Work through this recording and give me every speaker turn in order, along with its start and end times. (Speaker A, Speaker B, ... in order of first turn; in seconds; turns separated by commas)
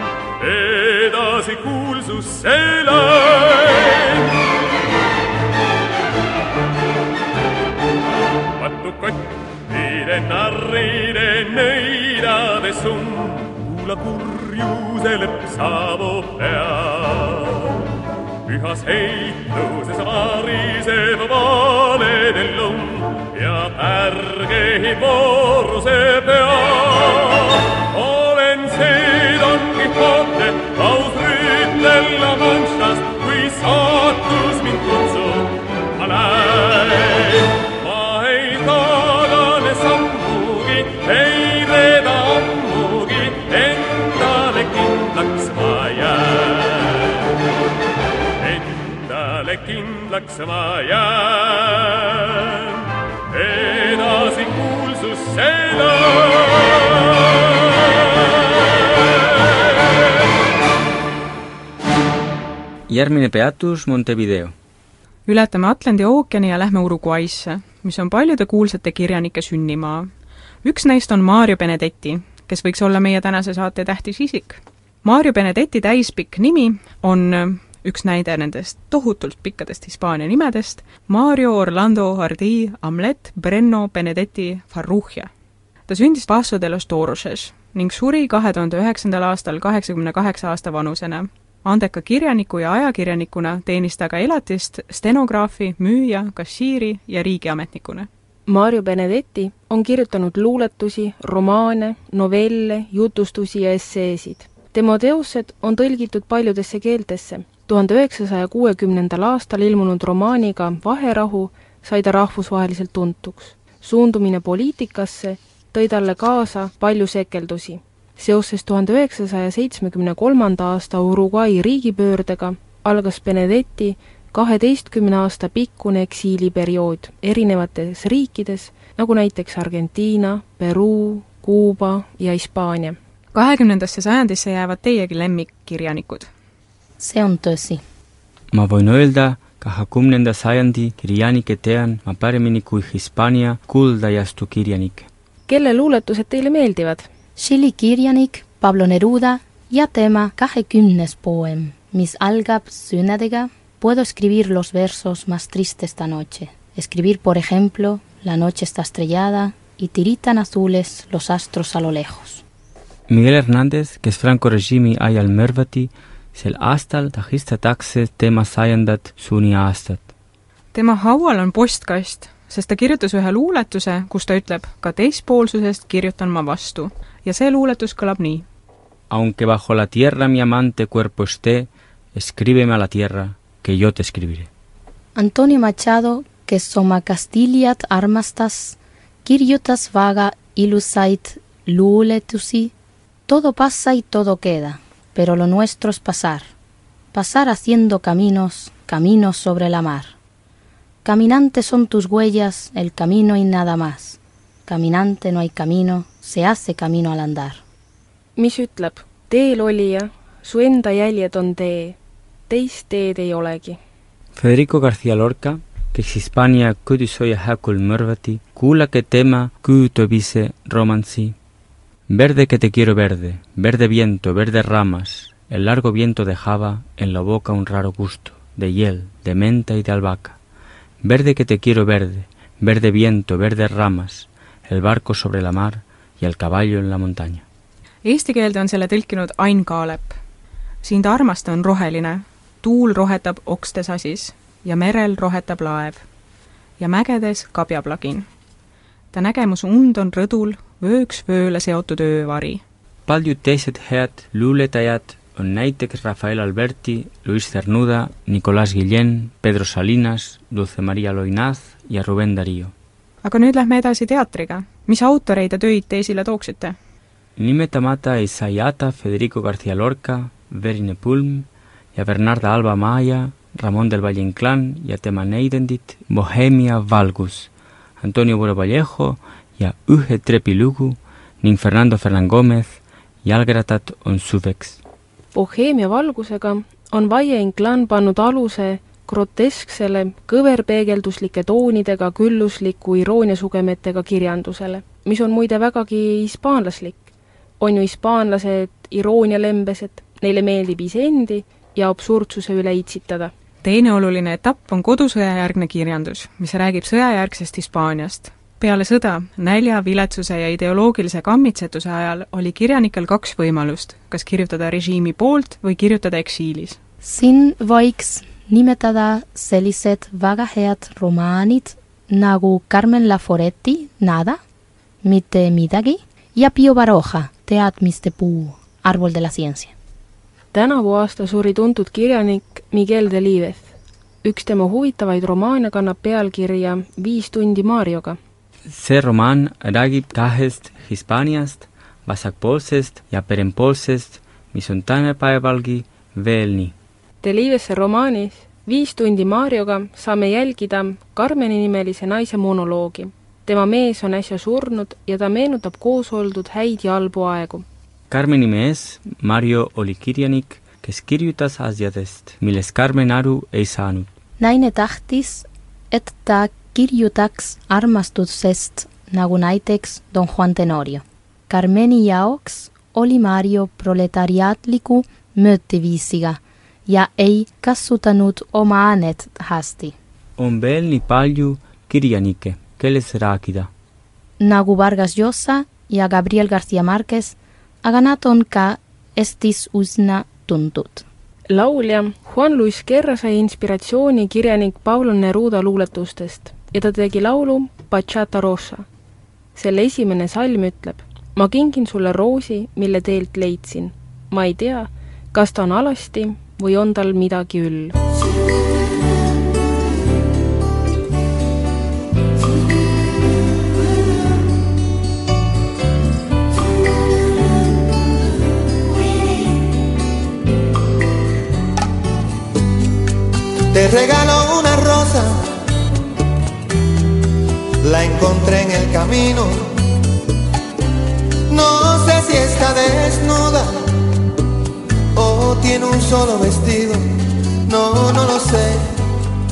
Speaker A: 0.4-4.4, Speaker A: 8.6-17.8, Speaker A: 18.5-47.2, Speaker A: 48.4-59.9, Speaker B: 62.9-64.5, Speaker C: 65.3-70.1, Speaker C: 70.6-85.3, Speaker C: 85.9-98.1, Speaker D: 98.5-133.0, Speaker C: 133.3-136.3, Speaker E: 137.0-137.8, Speaker B: 138.5-145.1, Speaker D: 145.5-147.1, Speaker E: 147.4-162.4, Speaker B: 163.1-170.1, Speaker C: 170.7-178.4, Speaker B: 179.1-184.5, Speaker E: 185.2-192.7, Speaker E: 193.3-196.5, Speaker E: 197.1-200.2, Speaker E: 201.0-207.6, Speaker D: 208.4-212.0, Speaker D: 212.5-213.8, Speaker B: 214.3-221.3, Speaker B: 222.1-230.4, Speaker B: 231.0-237.4, Speaker C: 238.1-240.2, Speaker C: 240.8-246.0, Speaker C: 246.8-248.3, Speaker C: 249.1-252.6, Speaker B: 253.1-262.7, Speaker C: 263.2-266.8, Speaker B: 267.4-284.8, Speaker D: 285.3-297.1, Speaker D: 297.6-303.3, Speaker C: 303.6-316.8, Speaker E: 317.0-324.4, Speaker E: 325.0-329.7, Speaker D: 330.5-333.7, Speaker D: 334.2-338.2, Speaker B: 338.7-346.7, Speaker D: 347.2-357.6, Speaker B: 358.1-364.1, Speaker E: 364.4-379.9, Speaker B: 380.4-383.7, Speaker E: 384.4-391.1, Speaker D: 391.5-398.9, Speaker D: 399.6-407.9, Speaker F: 423.7-425.5, Speaker F: 427.8-429.7, Speaker F: 431.5-433.7, Speaker F: 435.1-437.0, Speaker F: 437.7-438.9